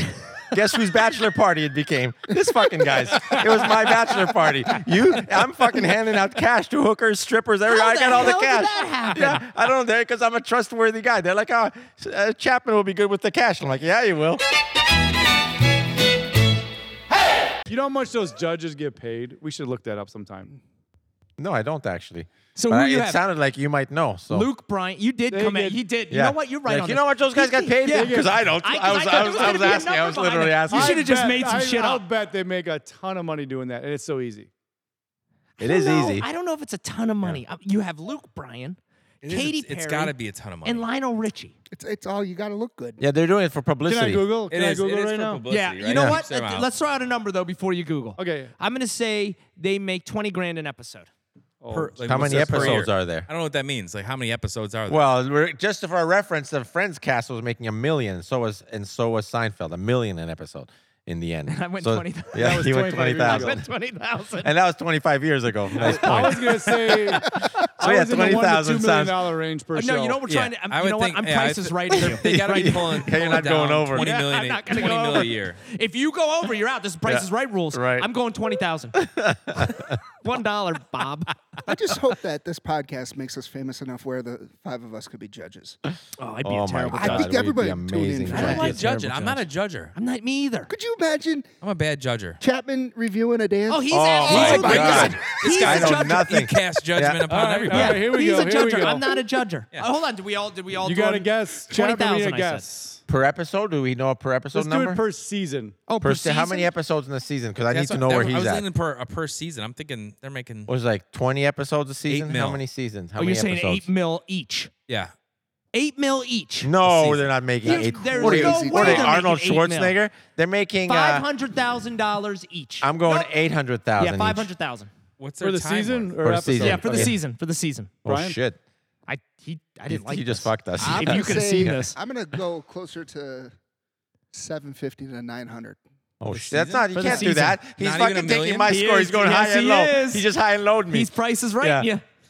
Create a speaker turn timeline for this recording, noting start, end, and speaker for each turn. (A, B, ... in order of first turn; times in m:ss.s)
0:00.5-0:14.4 A
0:07.7-0:09.4 B
0:17.7-0:20.6 C
0:21.4-0:24.5 A
0:22.5-0:23.2 B
0:24.3-0:32.0 B
0:25.3-0:25.8 C
0:26.1-0:31.0 A
0:27.9-0:28.4 C
0:30.7-0:34.5 C
0:35.6-0:36.3 A
0:35.6-0:41.5 B
0:39.2-0:40.9 D
0:41.7-0:43.0 E
0:43.0-0:44.3 A
0:43.8-0:45.4 C
0:44.5-0:46.7 D
0:45.5-0:51.1 B
0:48.2-0:48.5 C
0:51.6-0:52.0 C
0:51.7-0:55.1 D
0:51.7-0:52.8 B
0:52.0-0:53.3 A
0:54.9-1:03.6 A
1:01.5-1:04.5 B
1:02.4-1:03.6 C
1:04.4-1:09.2 A
1:05.8-1:10.2 C
1:05.8-1:06.7 B
1:09.7-1:13.0 B
1:10.3-1:10.5 A
1:10.5-1:15.6 D
1:12.0-1:14.1 A
1:13.9-1:19.0 B
1:17.0-1:18.1 A
1:19.0-1:20.0 A
1:20.2-1:21.5 B
1:21.6-1:25.8 E
1:26.2-1:27.4 B
1:26.4-1:29.4 A
1:26.9-1:28.7 E
1:28.3-1:29.4 B
1:28.3-1:29.9 D
1:29.9-1:30.7 B
1:30.7-1:31.5 E
1:31.6-1:32.4 D
1:32.4-1:35.3 E
1:33.7-1:36.3 B
1:33.9-1:37.2 A
1:34.2-1:38.2 D
1:37.2-1:39.2 C
1:37.7-1:42.6 B
1:40.8-1:43.0 C
1:43.1-1:45.0 A
1:44.5-1:45.8 C
1:45.9-1:46.7 B
1:46.0-1:48.6 A
1:47.7-1:50.7 D
1:50.7-1:53.9 A
1:52.1-1:52.6 D
1:53.2-1:54.7 B
1:55.7-1:56.7 B
1:56.6-2:01.2 A
1:56.8-1:57.3 D
1:57.6-2:00.0 B
1:57.7-1:59.2 E
2:00.8-2:03.3 B
2:02.8-2:04.5 A
2:04.0-2:04.9 B
2:05.2-2:06.1 D
2:05.4-2:07.2 C
2:06.2-2:07.1 A
2:06.6-2:07.9 B
2:08.0-2:08.6 A
2:08.1-2:08.4 C
2:09.1-2:12.0 B
2:09.9-2:11.8 A
2:10.9-2:13.5 E
2:14.3-2:15.8 E
2:16.2-2:21.9 A
2:16.3-2:18.7 D
2:16.9-2:17.6 B
2:18.6-2:20.3 B
2:20.9-2:22.0 B